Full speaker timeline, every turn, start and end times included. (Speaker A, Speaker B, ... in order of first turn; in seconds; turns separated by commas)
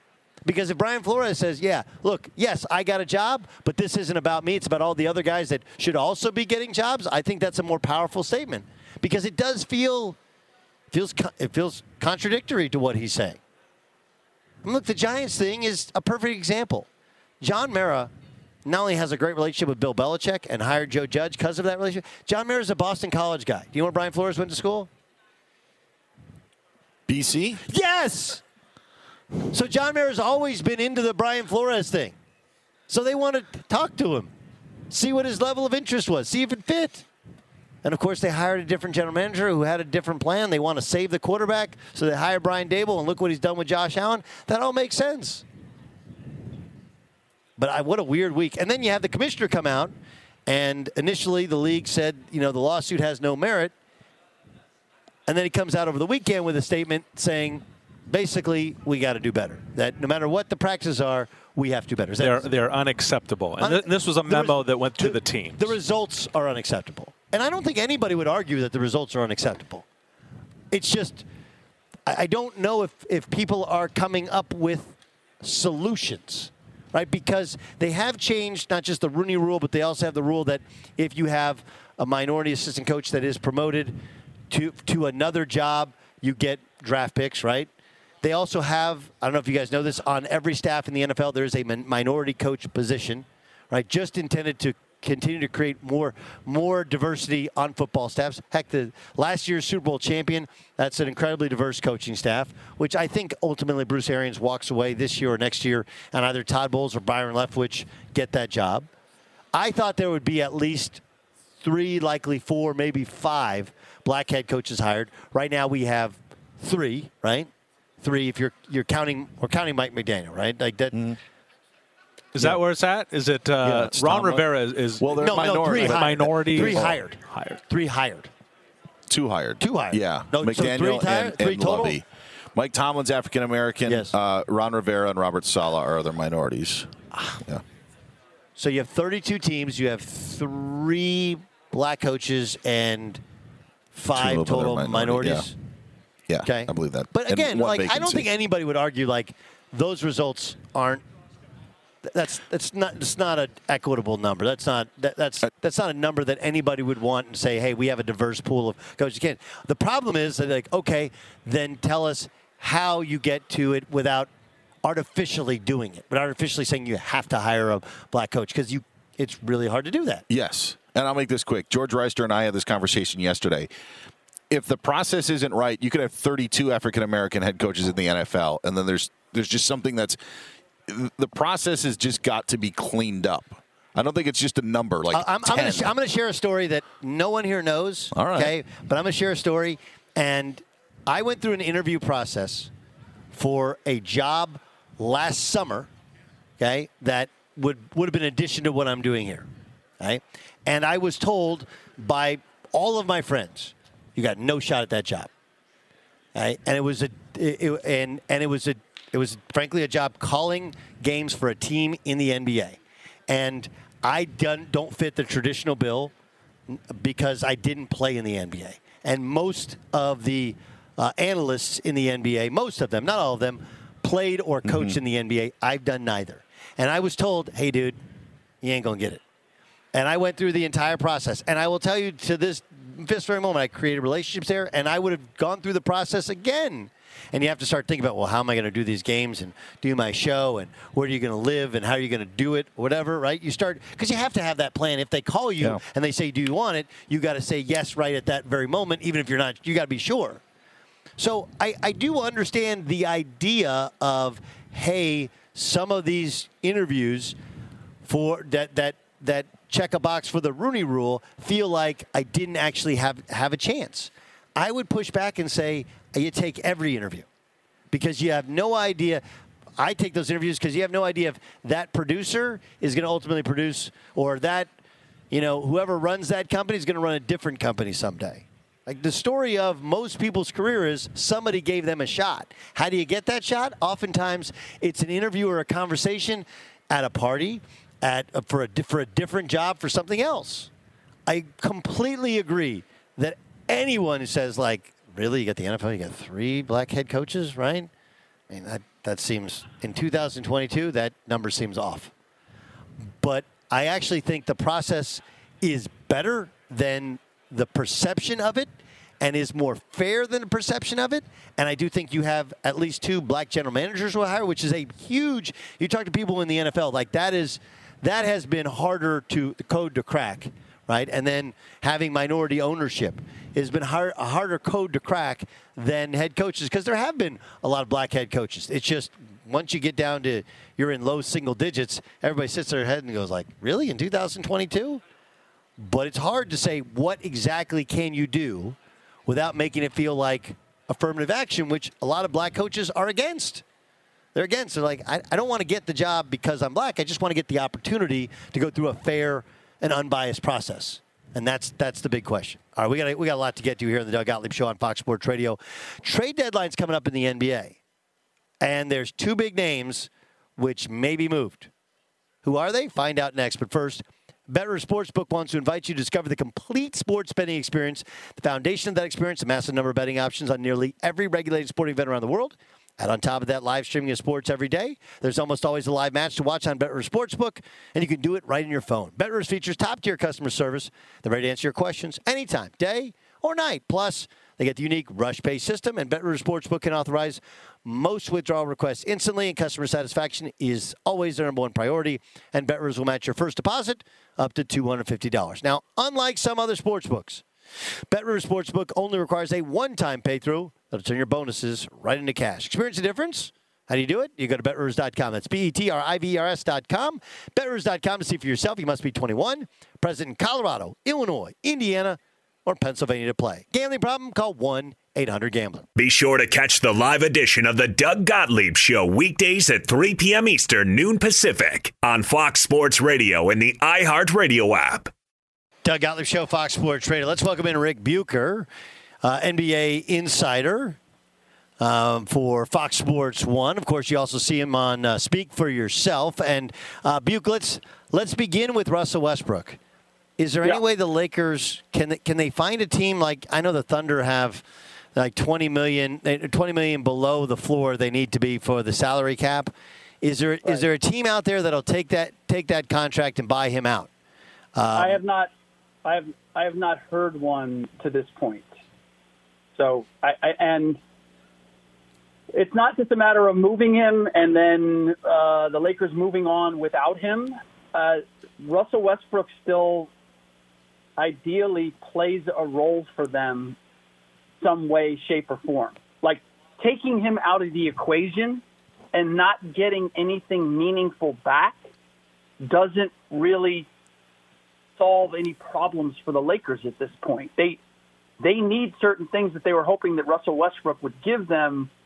Speaker A: 0.4-10.2, Speaker A: 10.9-13.4, Speaker A: 14.6-16.9, Speaker A: 17.4-18.1, Speaker A: 18.6-24.9, Speaker B: 27.1-27.6, Speaker A: 27.7-28.4, Speaker A: 29.5-32.1, Speaker A: 32.9-34.3, Speaker A: 34.9-37.1, Speaker A: 37.8-45.4, Speaker A: 47.6-49.9, Speaker A: 50.5-53.7, Speaker A: 55.3-62.5, Speaker C: 62.2-65.8, Speaker A: 63.6-69.8, Speaker A: 70.7-71.3, Speaker A: 72.1-84.0, Speaker A: 84.5-87.7, Speaker A: 88.2-108.9, Speaker A: 109.5-111.0, Speaker A: 111.6-117.5, Speaker A: 118.0-121.0, Speaker C: 122.3-127.6, Speaker B: 123.6-124.4, Speaker B: 125.0-127.0, Speaker A: 125.2-128.3, Speaker B: 129.1-137.6, Speaker A: 129.6-132.0, Speaker A: 133.9-134.1, Speaker A: 138.6-143.2, Speaker A: 143.9-145.6, Speaker B: 144.1-145.5, Speaker B: 146.3-148.3, Speaker A: 146.4-151.0, Speaker A: 152.0-164.3, Speaker A: 164.8-170.2, Speaker B: 170.3-173.7, Speaker B: 174.5-180.2, Speaker B: 180.9-185.9, Speaker A: 185.1-192.7, Speaker B: 188.1-188.6, Speaker A: 193.3-195.9, Speaker A: 196.6-199.5, Speaker A: 200.0-205.3, Speaker A: 206.3-216.1, Speaker A: 216.7-228.0, Speaker B: 224.7-224.9, Speaker A: 228.6-229.2, Speaker A: 229.9-250.4, Speaker A: 251.2-257.4, Speaker A: 258.0-267.3, Speaker A: 267.9-269.2, Speaker A: 269.8-274.7, Speaker A: 275.3-290.7, Speaker A: 291.3-297.9, Speaker A: 298.5-302.1, Speaker A: 303.1-308.7, Speaker A: 309.2-335.0, Speaker A: 335.8-343.6, Speaker A: 344.4-357.8, Speaker A: 358.6-361.7, Speaker A: 362.4-397.4, Speaker A: 398.1-415.9, Speaker D: 416.0-425.1, Speaker A: 425.8-428.7, Speaker A: 429.2-431.0, Speaker A: 431.8-439.8, Speaker A: 440.4-444.6, Speaker A: 445.1-454.1, Speaker A: 454.8-455.2, Speaker E: 454.9-455.5, Speaker E: 456.0-458.7, Speaker E: 459.8-461.0, Speaker E: 462.5-470.1, Speaker E: 471.2-473.8, Speaker E: 474.6-478.6, Speaker E: 479.1-481.8, Speaker E: 482.6-483.9, Speaker E: 485.0-487.8, Speaker E: 488.4-491.9